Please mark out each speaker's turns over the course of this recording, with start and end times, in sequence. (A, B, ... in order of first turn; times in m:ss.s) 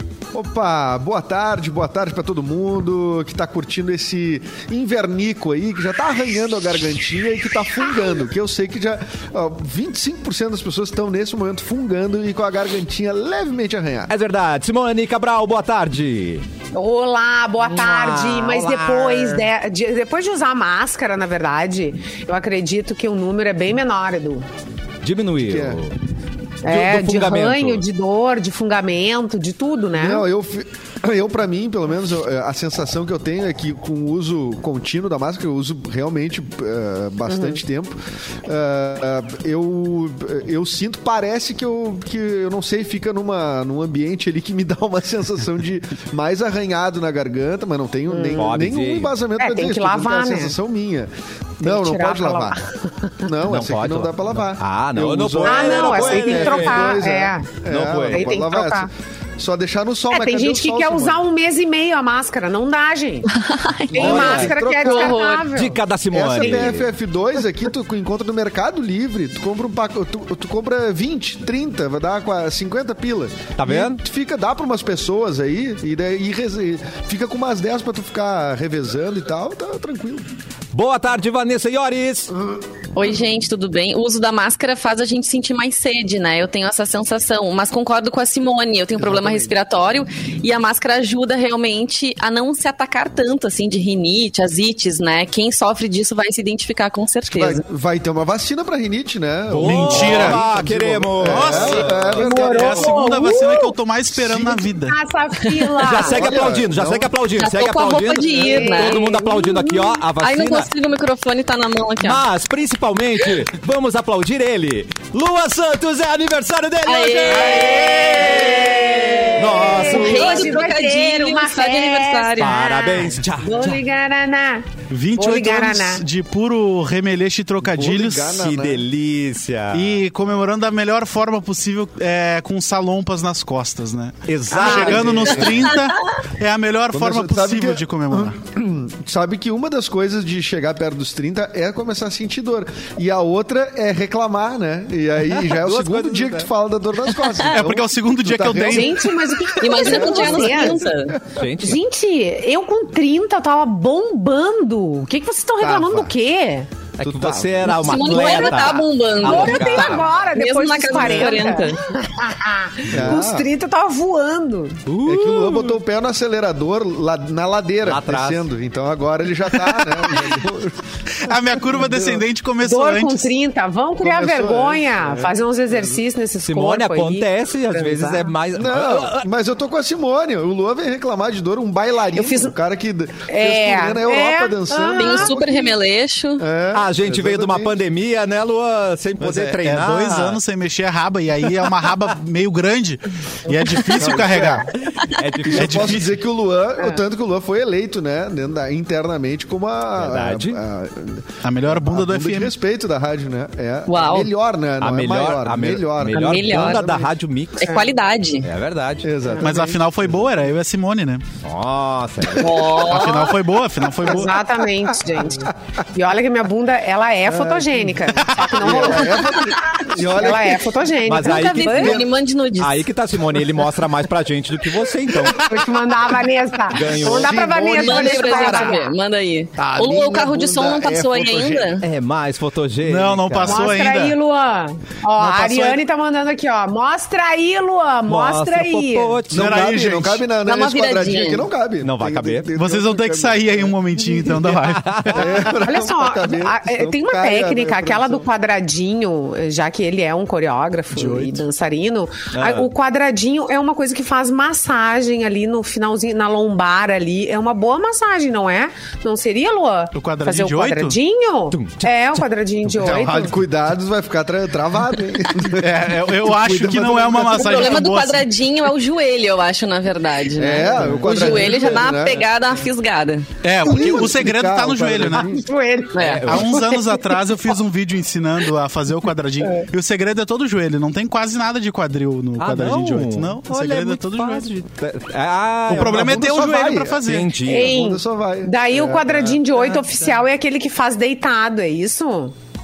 0:00.3-0:14.1 A
0:14.1-0:16.5 B
0:16.7-0:24.5 C
0:17.6-0:19.5 B
0:25.0-0:26.0 B
0:25.4-0:25.8 A
0:26.6-0:30.2 C
0:26.7-0:27.8 B
0:30.0-0:52.6 A
0:37.3-0:37.6 C
0:48.1-0:48.6 C
0:48.4-0:49.1 B
0:49.4-0:50.6 C
0:51.6-0:53.1 C
0:53.2-1:01.2 A
0:53.4-0:57.0 B
0:55.4-0:57.5 C
0:57.7-0:58.3 B
0:58.1-0:58.9 C
1:00.1-1:03.3 C
1:03.3-1:05.5 D
1:03.9-1:05.8 C
1:03.9-1:05.0 A
1:03.9-1:06.9 B
1:06.1-1:20.3 A
1:13.6-1:14.0 B
1:20.7-1:22.3 B
1:23.0-1:37.6 D
1:29.0-1:29.5 A
1:37.2-1:43.0 A
1:39.5-1:42.1 B
1:39.6-1:40.4 E
1:41.2-1:45.0 E
1:42.1-1:43.6 C
1:44.1-1:44.7 A
1:44.8-1:46.4 C
1:45.8-1:50.7 B
1:45.8-1:47.1 A
1:47.4-1:52.2 D
1:48.3-1:49.7 C
1:52.0-2:00.6 B
1:56.9-2:02.6 D
1:58.1-2:04.6 C
2:02.4-2:03.8 B
2:04.9-2:08.4 E
2:05.2-2:06.0 C
2:07.6-2:08.9 A
2:08.3-2:10.0 B
2:09.7-2:18.4 E
2:14.3-2:15.7 B
2:14.5-2:15.0 C
2:14.6-2:15.7 A
2:16.9-2:29.0 A
2:25.4-2:26.5 B
2:27.5-2:29.1 E
2:28.7-2:30.9 C
2:29.6-2:31.2 D
2:29.7-2:31.2 A
2:31.3-2:31.8 B
2:31.6-2:36.7 C
2:35.6-2:36.1 A
2:37.0-2:40.1 B
2:37.0-2:37.8 A
2:37.6-2:41.8 D
2:37.9-2:44.8 C
2:42.9-2:43.5 A
2:42.9-2:43.2 B
2:44.9-2:45.8 B
2:45.0-2:50.9 A
2:47.8-2:48.4 B
2:51.1-2:53.3 E
2:51.7-2:52.2 A
2:52.6-2:58.3 C
2:54.0-2:56.0 A
2:56.4-2:59.3 B
2:58.5-3:05.7 A
3:02.2-3:02.5 C
3:03.3-3:05.3 C
3:05.0-3:06.5 D
3:06.4-3:07.8 A
3:06.7-3:10.4 B
3:09.2-3:14.7 E
3:14.0-3:14.7 A
3:15.0-3:16.0 B
3:15.5-3:27.0 A
3:15.5-3:16.1 E
3:20.0-3:20.6 B
3:21.4-3:22.5 E
3:23.9-3:24.3 D
3:24.8-3:27.7 B
3:26.1-3:28.5 D
3:27.6-3:27.9 C
3:28.4-3:29.1 B
3:29.0-3:30.5 A
3:29.3-3:29.6 C
3:29.4-3:31.2 E
3:31.4-3:32.9 B
3:32.3-3:32.7 A
3:32.4-3:33.4 D
3:32.9-3:34.4 E
3:34.0-3:42.0 C
3:34.9-3:35.5 A
3:37.3-3:40.7 A
3:38.3-3:38.6 E
3:41.0-3:45.5 B
3:41.2-3:42.9 D
3:45.3-3:49.0 C
3:46.7-3:47.5 B
3:46.9-3:48.7 A
3:47.7-3:51.8 D
3:49.6-3:51.8 A
3:51.8-3:53.7 B
3:52.8-3:54.2 E
3:53.4-3:59.2 C
3:55.2-3:55.8 E
3:58.1-3:59.8 B
3:59.3-4:00.2 E
3:59.3-4:03.8 A
4:00.5-4:01.5 D
4:01.8-4:02.5 B
4:02.5-4:05.5 E
4:04.2-4:05.3 B
4:05.1-4:08.3 A
4:05.5-4:23.4 C
4:10.9-4:11.4 E
4:12.3-4:12.7 B
4:19.9-4:21.0 E
4:21.5-4:22.9 B
4:22.8-4:27.8 A
4:25.5-4:28.3 E
4:27.3-4:33.3 D
4:30.3-4:32.3 A
4:30.9-4:31.7 B
4:33.4-4:35.3 E
4:33.6-4:35.4 A
4:35.1-4:37.1 C
4:36.0-4:36.5 D
4:36.0-4:36.6 B
4:36.2-4:44.5 E
4:42.4-4:46.2 B
4:45.7-4:47.3 E
4:45.7-4:49.4 A
4:47.0-4:47.7 B
4:47.5-4:52.3 C
4:49.5-4:50.2 B